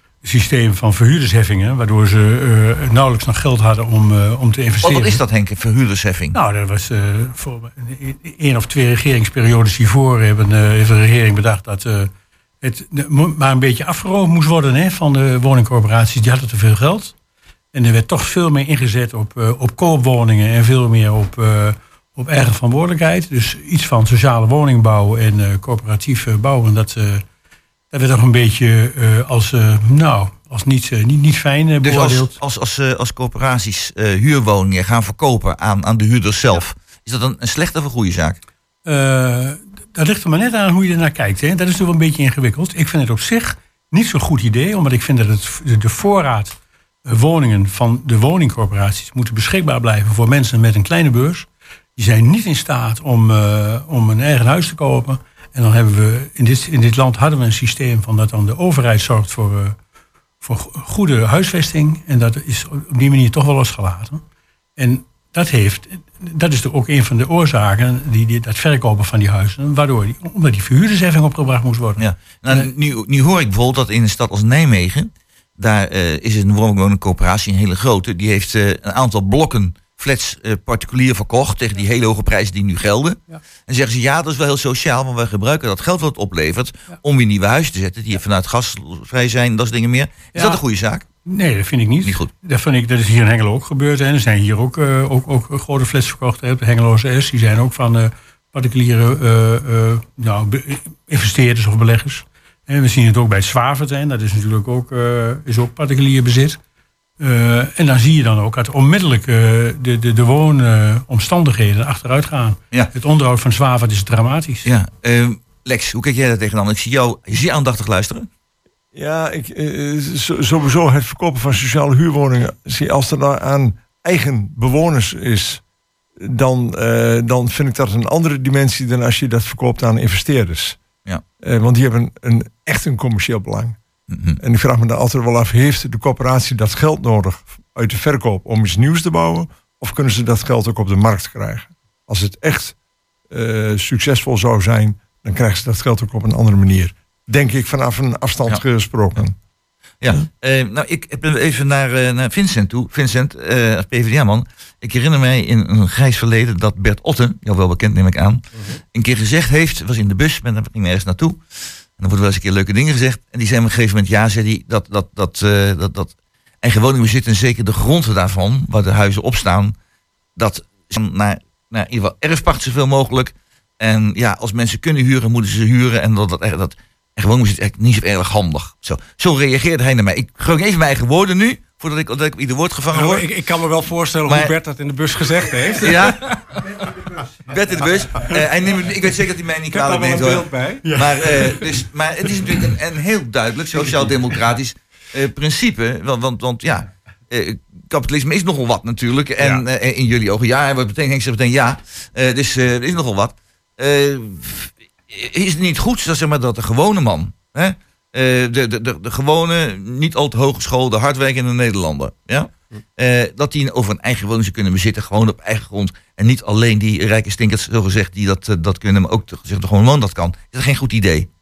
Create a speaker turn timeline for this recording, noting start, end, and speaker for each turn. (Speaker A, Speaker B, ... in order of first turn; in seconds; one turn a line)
Speaker A: 0.2-5.2
Speaker B: 4.8-6.4
Speaker A: 6.3-17.1
Speaker A: 17.7-27.2
Speaker A: 27.9-32.3
Speaker B: 31.8-38.4
Speaker A: 38.8-59.8
Speaker A: 60.4-64.2
Speaker A: 64.8-72.7
Speaker B: 72.0-91.0
Speaker A: 90.3-90.6
Speaker A: 91.2-106.6
Speaker B: 92.0-92.3
Speaker A: 107.2-114.7
Speaker B: 114.6-118.3
Speaker C: 118.9-125.6
Speaker C: 126.2-130.8
Speaker C: 131.4-133.8
Speaker B: 134.1-134.4
Speaker C: 134.4-142.7
Speaker C: 143.3-149.3
Speaker B: 150.0-161.4
Speaker B: 162.0-169.7
Speaker B: 170.4-183.3
Speaker D: 182.9-186.4
Speaker B: 184.3-184.5
Speaker B: 185.8-186.4
Speaker B: 187.5-221.3
Speaker D: 189.7-190.9